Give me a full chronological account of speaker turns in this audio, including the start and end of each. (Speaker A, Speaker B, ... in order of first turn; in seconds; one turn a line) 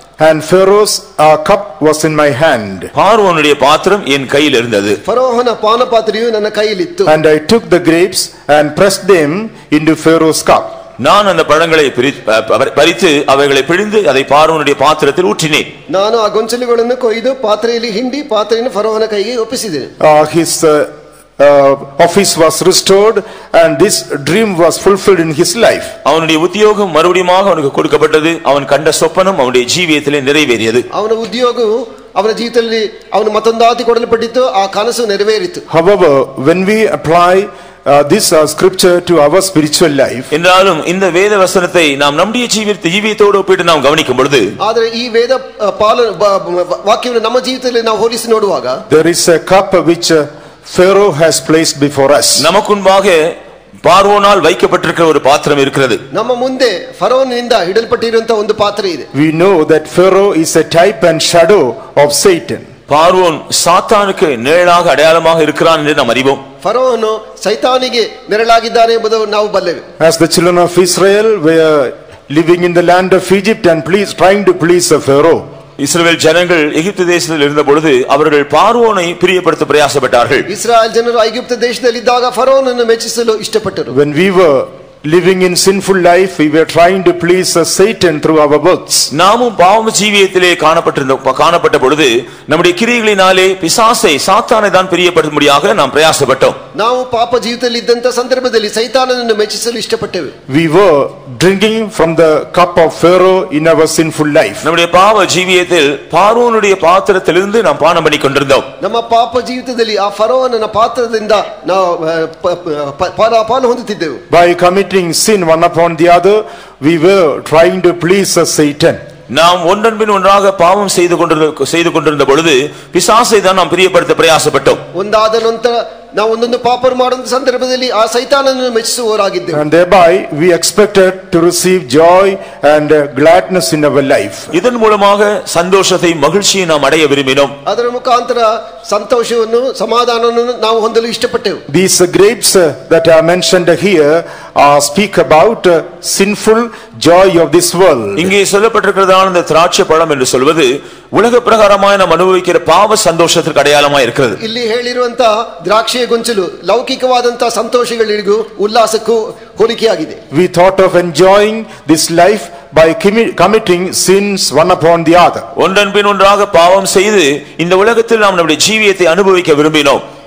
Speaker A: 0.2-2.9
Speaker B: 2.9-5.0
Speaker C: 5.0-7.1
Speaker A: 7.1-10.7
Speaker B: 11.0-15.7
Speaker C: 15.9-19.9
Speaker A: 20.0-25.9
Speaker B: 26.1-30.9
Speaker C: 30.9-35.6
Speaker A: 35.7-40.3
Speaker B: 40.3-44.5
Speaker C: 44.6-48.8
Speaker A: 48.9-52.5
Speaker B: 52.4-53.3
Speaker B: 53.8-56.0
Speaker C: 56.1-59.1
Speaker A: 59.1-62.7
Speaker B: 62.9-66.4
Speaker C: 66.6-69.8
Speaker A: 70.0-75.5
Speaker B: 75.8-80.5
Speaker C: 80.5-84.0
Speaker A: 83.9-89.1
Speaker B: 89.1-96.6
Speaker C: 96.8-100.3
Speaker A: 100.5-104.7
Speaker B: 104.6-108.7
Speaker C: 108.8-114.2
Speaker A: 114.3-119.0
Speaker B: 119.3-124.8
Speaker C: 125.0-129.7
Speaker A: 129.5-134.5
Speaker B: 134.5-137.5
Speaker C: 137.7-141.6
Speaker A: 141.7-148.3
Speaker B: 148.2-154.4
Speaker C: 154.4-160.2
Speaker A: 160.3-165.5
Speaker B: 165.6-170.0